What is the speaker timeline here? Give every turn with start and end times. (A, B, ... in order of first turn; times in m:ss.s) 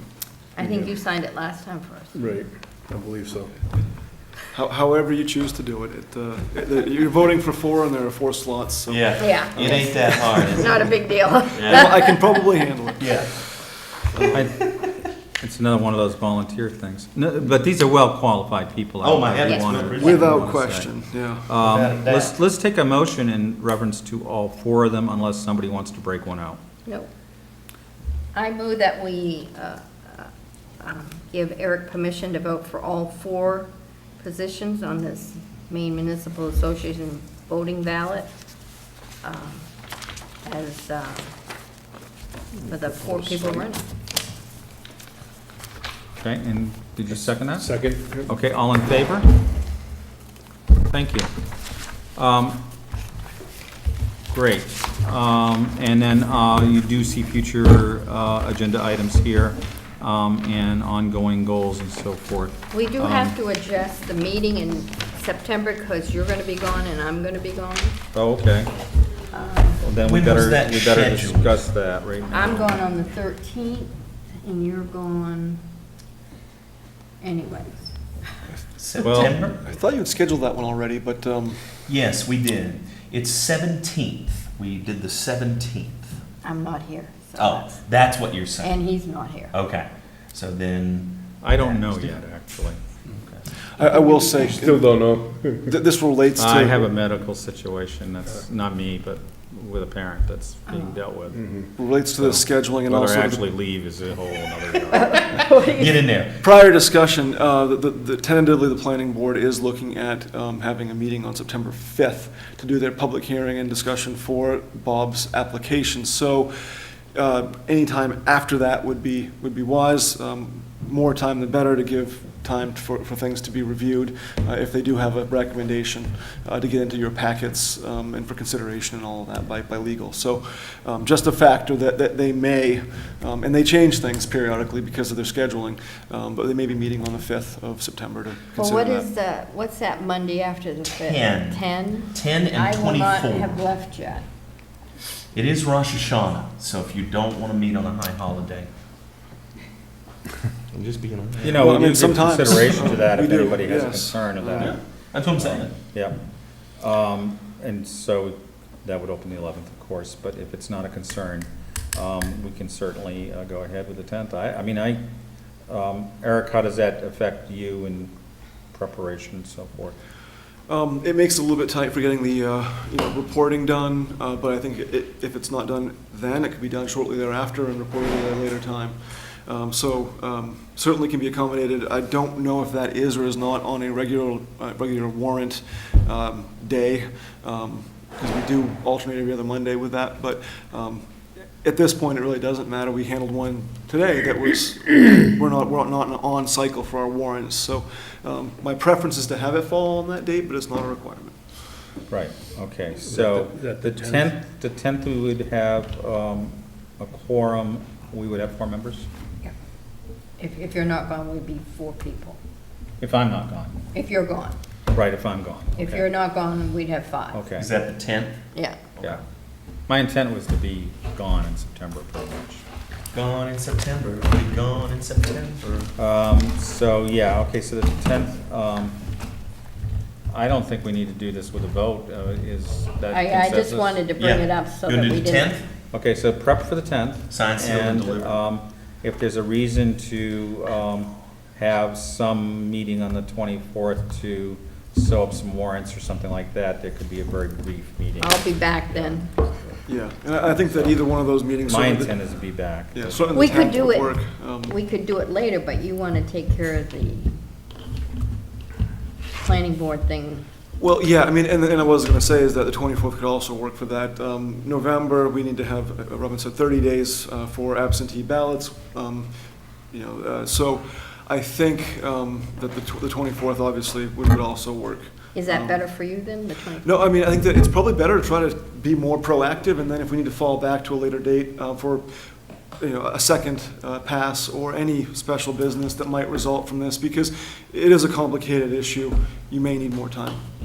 0:00.6-0:02.3 A
0:00.6-0:00.9 B
0:02.2-0:03.6 B
0:04.5-0:10.1 C
0:08.9-0:10.9 D
0:09.2-0:12.4 A
0:11.5-0:12.0 D
0:11.6-0:13.6 C
0:13.0-0:13.4 D
0:14.3-0:14.7 E
0:15.4-0:20.9 E
0:19.0-0:20.3 D
0:19.5-0:19.9 A
0:19.9-0:21.5 C
0:21.5-0:26.6 E
0:21.5-0:22.3 D
0:28.3-0:38.3 A
0:39.2-0:39.7 A
0:40.4-0:41.3 A
0:42.6-0:43.6 B
0:42.7-0:43.9 A
0:46.2-0:49.3 E
0:47.5-0:48.3 B
0:50.9-0:51.3 E
0:52.2-0:52.6 E
0:54.3-1:03.4 E
1:02.7-1:08.0 A
1:08.1-1:08.7 E
1:09.3-1:09.8 A
1:09.8-1:12.8 E
1:10.0-1:11.5 D
1:12.3-1:15.6 A
1:17.2-1:18.0 A
1:18.8-1:19.6 D
1:19.0-1:19.3 E
1:19.2-1:21.8 C
1:21.9-1:26.2 D
1:26.4-1:27.8 A
1:27.4-1:28.8 D
1:28.6-1:29.6 A
1:29.5-1:32.2 D
1:31.4-1:32.8 E
1:33.7-1:36.9 C
1:33.8-1:34.6 A
1:34.5-1:35.8 B
1:36.4-1:41.6 E
1:40.7-1:41.0 A
1:41.3-1:41.7 B
1:41.8-1:43.4 C
1:42.2-1:45.4 E
1:44.9-1:46.1 A
1:45.7-1:46.4 D
1:46.4-2:19.1 C
2:18.6-2:24.3 A
2:20.8-2:23.6 D
2:25.3-2:28.7 D
2:30.7-2:31.9 D
2:31.4-2:36.2 E
2:31.4-2:34.8 C
2:34.6-2:35.7 D
2:36.8-2:45.0 E
2:45.7-2:48.1 E
2:48.7-2:50.0 E
2:50.7-3:11.1 C
3:11.6-3:21.4 C
3:22.1-3:29.1 E
3:23.0-3:24.3 B
3:30.4-3:32.4 A
3:33.0-3:33.8 E
3:33.9-3:34.6 A
3:34.9-3:36.0 E
3:35.8-3:37.4 A
3:37.3-3:37.7 E
3:37.6-3:38.4 D
3:38.5-3:38.8 A
3:39.9-3:42.6 E
3:43.1-3:45.9 D
3:46.0-3:49.0 E
3:50.3-3:54.0 E
3:53.1-3:55.6 A
3:54.2-3:55.7 D
3:55.9-4:08.4 E
3:57.3-3:58.4 D
4:08.2-4:09.3 A
4:09.9-4:12.2 C
4:11.6-4:13.6 E
4:12.9-4:14.8 C
4:13.3-4:17.4 A
4:19.4-4:20.4 A
4:20.8-4:29.3 C
4:29.9-4:35.8 C
4:35.3-4:37.0 A
4:36.8-4:42.1 C
4:42.8-4:50.4 C